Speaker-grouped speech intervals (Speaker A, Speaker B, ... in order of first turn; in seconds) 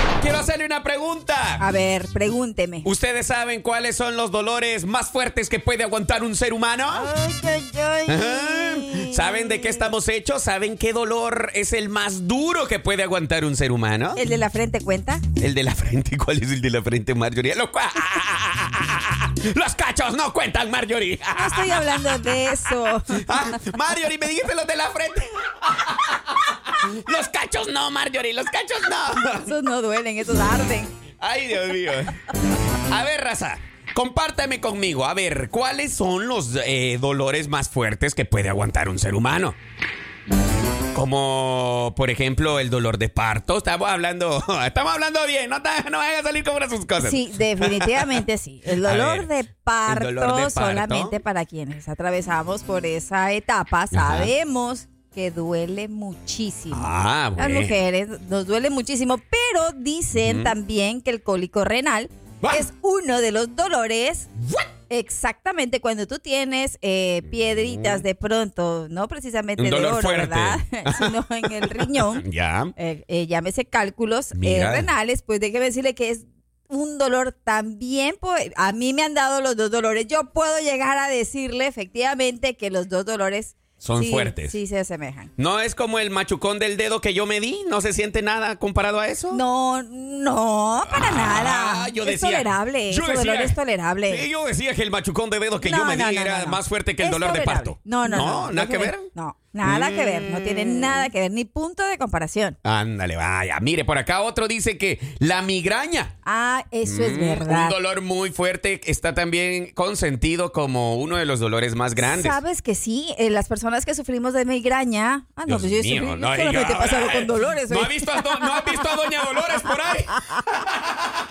Speaker A: 0.2-1.6, 2.8-7.1, 8.1-14.2, 15.3-29.5, 31.2-32.3, 32.9-39.5, 40.9-48.2, 48.8-49.3, 49.9-51.2, 53.9-54.3, 56.7-57.8, 60.1-60.5, 67.3-68.0, 69.6-72.7, 74.3-74.9, 83.8-84.6, 85.4-89.4, 90.8-99.1, 99.6-101.1, 102.6-106.1, 106.8-112.4, 115.5-121.2
Speaker B: 1.6-2.9, 6.9-9.9, 14.1-15.2, 21.4-23.7, 29.4-30.9, 47.0-64.3, 64.9-72.2, 72.8-85.3, 89.3-94.2, 95.6-102.6, 106.2-107.8, 112.0-118.9